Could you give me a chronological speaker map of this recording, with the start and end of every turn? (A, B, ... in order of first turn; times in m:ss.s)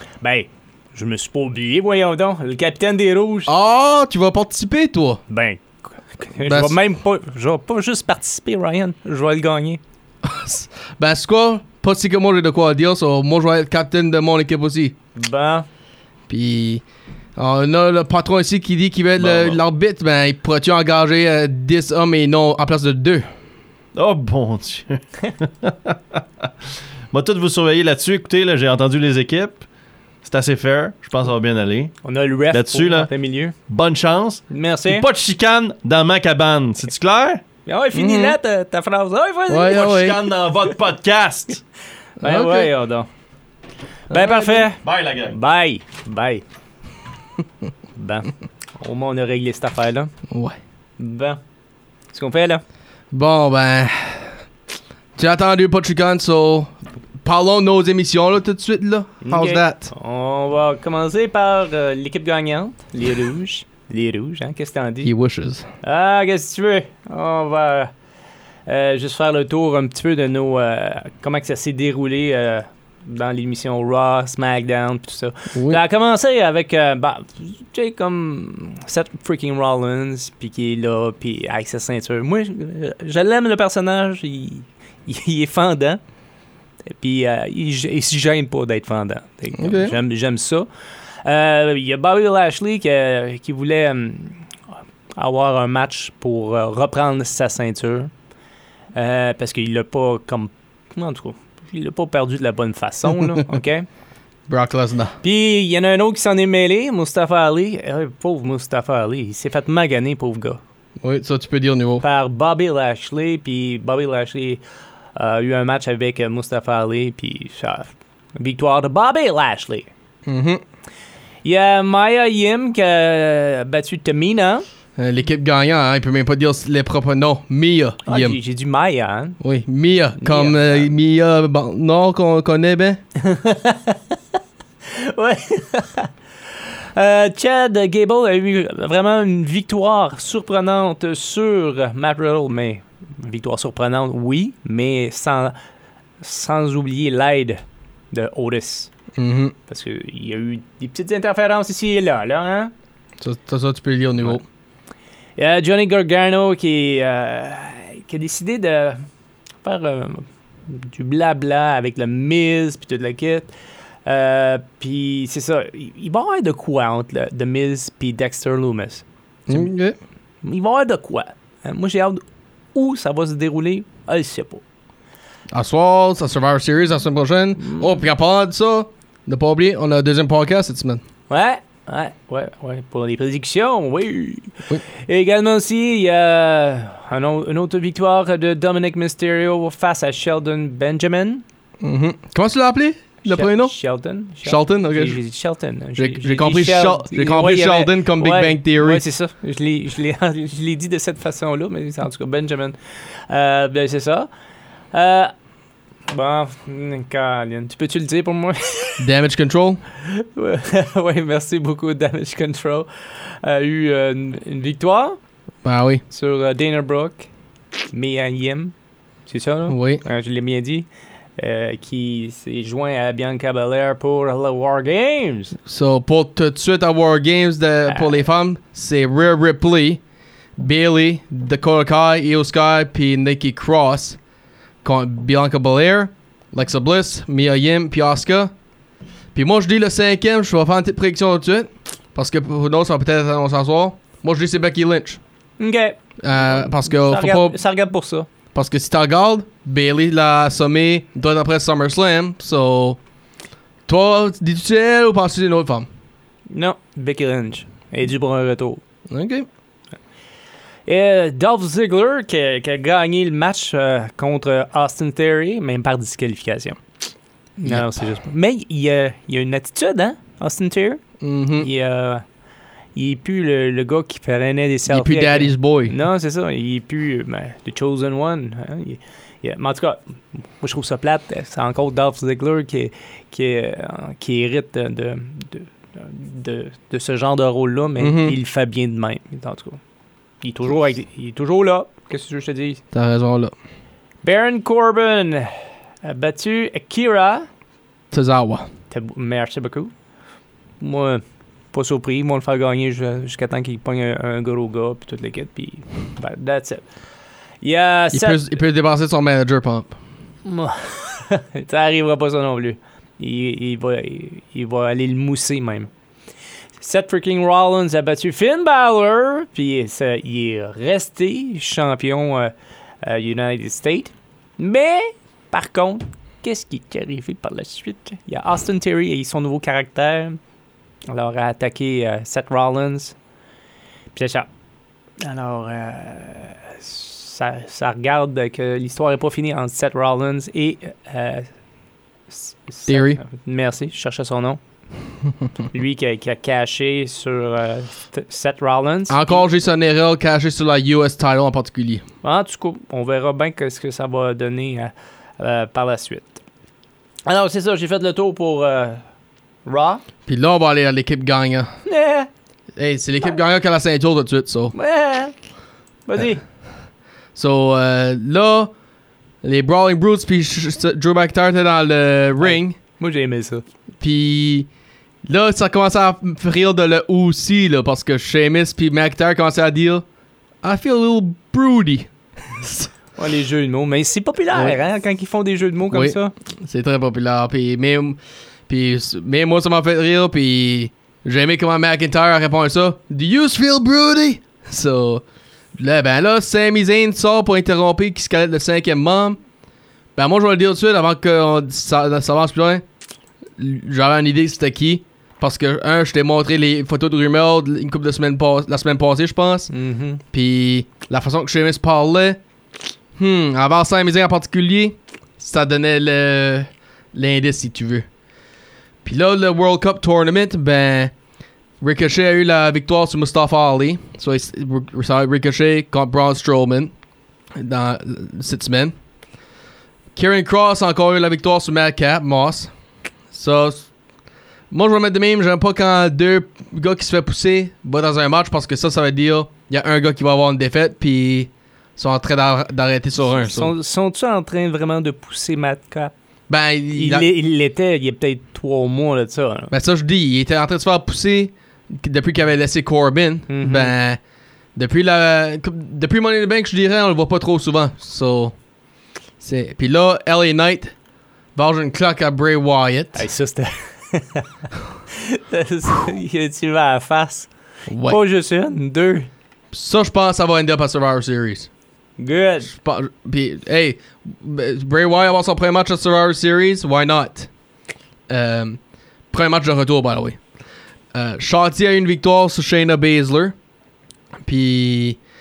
0:00.2-0:03.5 A
0:03.5-0:05.2 B
0:05.3-0:05.6 A
0:06.1-0:09.8 A
0:06.4-0:06.8 B
0:10.2-0:14.9 B
0:15.2-0:15.6 A
0:16.3-0:16.8 B
0:17.4-0:23.2 B
0:19.2-0:19.6 C
0:23.9-0:26.5 C
0:27.1-0:29.6 C
0:30.2-0:33.1 C
0:32.0-0:33.5 A
0:33.7-0:37.4 C
0:34.5-0:35.0 A
0:37.6-0:39.8 A
0:37.9-0:38.4 B
0:39.5-0:40.2 B
0:39.7-0:41.6 C
0:42.2-0:42.7 B
0:42.2-0:43.1 A
0:44.1-0:44.7 B
0:44.1-0:46.4 A
0:44.4-0:45.4 C
0:48.0-0:50.1 A
0:50.3-0:50.6 B
0:51.0-0:51.4 A
0:52.1-0:52.6 A
0:53.1-0:54.3 B
0:55.2-0:59.9 B
0:59.2-1:05.1 A
1:05.0-1:05.6 B
1:05.8-1:07.9 A
1:08.6-1:26.0 A
1:15.5-1:15.8 B
1:27.0-1:30.7 A
1:29.6-1:30.0 B
1:31.2-1:34.4 A
1:35.2-1:38.1 A
1:38.9-1:43.8 A
1:44.5-1:45.2 B
1:45.2-1:50.6 A
1:51.0-1:52.0 B
1:52.0-1:54.6 A
1:55.1-1:59.9 A
2:00.2-2:00.6 B
2:01.4-2:04.6 A
2:05.0-2:08.4 B
2:08.0-2:09.4 A
2:09.4-2:13.0 B
2:10.2-2:10.9 A
2:13.2-2:14.1 A
2:14.8-2:16.1 A
2:16.7-2:25.5 A
2:26.2-2:27.6 A
2:28.1-2:28.9 A
2:29.2-2:29.5 B
2:29.7-2:32.7 A
2:33.2-2:34.4 B
2:35.4-2:39.0 A
2:39.6-2:43.5 A
2:44.0-2:49.0 A
2:49.5-2:50.0 B
2:50.4-2:52.2 A
2:52.7-2:54.6 A
2:55.5-3:01.0 B
2:57.6-2:57.9 A
3:01.3-3:11.4 A
3:11.8-3:13.7 B
3:13.2-3:22.8 A
3:14.4-3:15.2 B
3:16.0-3:19.0 B
3:23.3-3:24.3 A
3:24.9-3:25.3 A
3:26.1-3:29.0 A
3:29.0-3:29.8 B
3:30.0-3:35.2 A
3:35.6-3:36.0 B
3:36.1-3:37.3 A
3:37.9-3:38.7 A
3:39.3-3:45.6 A
3:39.7-3:40.0 B
3:45.7-3:50.0 B
3:47.9-3:48.2 A
3:50.6-3:54.2 B
3:54.8-3:58.5 B
3:59.3-4:05.2 B
4:05.6-4:08.3 A
4:06.2-4:07.5 B
4:08.5-4:13.0 B
4:13.9-4:15.9 B
4:16.5-4:18.8 A
4:19.1-4:19.5 B
4:20.8-4:26.8 A
4:27.6-4:31.0 A
4:27.6-4:27.9 B
4:31.2-4:31.7 B
4:31.6-4:32.2 A
4:32.9-4:40.0 A
4:34.9-4:35.9 B
4:40.6-4:49.8 A
4:48.0-4:48.4 B
4:50.4-4:52.8 A
4:52.9-4:53.5 B
4:54.2-4:57.5 A
4:58.1-4:58.6 B
4:58.9-4:59.9 A
5:00.8-5:01.2 A
5:01.7-5:06.8 A
5:07.6-5:08.4 A
5:08.1-5:10.0 B
5:10.4-5:15.9 A
5:16.8-5:30.4 A
5:31.1-5:33.1 A
5:34.1-5:34.5 A
5:35.2-5:41.5 A
5:42.3-5:44.6 A
5:42.9-5:43.2 B
5:45.7-5:49.4 A
5:49.1-5:52.0 B
5:52.2-5:56.4 A
5:57.3-5:59.0 A
5:59.6-6:00.0 A
6:00.2-6:01.7 B
6:01.8-6:02.3 A
6:02.8-6:04.7 B
6:04.7-6:05.3 A
6:06.0-6:06.4 A
6:07.3-6:08.7 B
6:09.4-6:12.8 B
6:12.4-6:13.6 A
6:14.0-6:14.7 B
6:15.3-6:20.0 B
6:20.6-6:22.9 B
6:23.2-6:26.3 A
6:24.5-6:24.8 B
6:25.9-6:35.2 B
6:35.8-6:39.4 B
6:40.2-6:42.8 B
6:43.6-6:49.7 B
6:49.7-6:50.2 A
6:50.3-6:52.4 B
6:53.2-6:58.0 B
6:59.0-7:01.1 B
7:01.8-7:06.9 B
7:07.6-7:08.9 B
7:10.1-7:12.7 B
7:13.3-7:13.9 B
7:14.7-7:23.7 B
7:23.2-7:26.1 A
7:26.5-7:27.3 B
7:26.9-7:29.7 A
7:29.7-7:34.2 B
7:33.5-7:34.0 A
7:34.8-7:38.5 B
7:39.4-7:40.9 B
7:41.5-7:43.2 B
7:43.2-7:44.5 A
7:45.1-7:47.5 A
7:47.9-7:48.2 B
7:48.0-7:49.3 A
7:49.7-7:51.7 B
7:52.2-7:52.7 A
7:52.6-7:57.5 B
7:58.3-7:58.8 B
7:59.3-8:00.4 B
8:01.1-8:03.5 B
8:04.4-8:05.2 B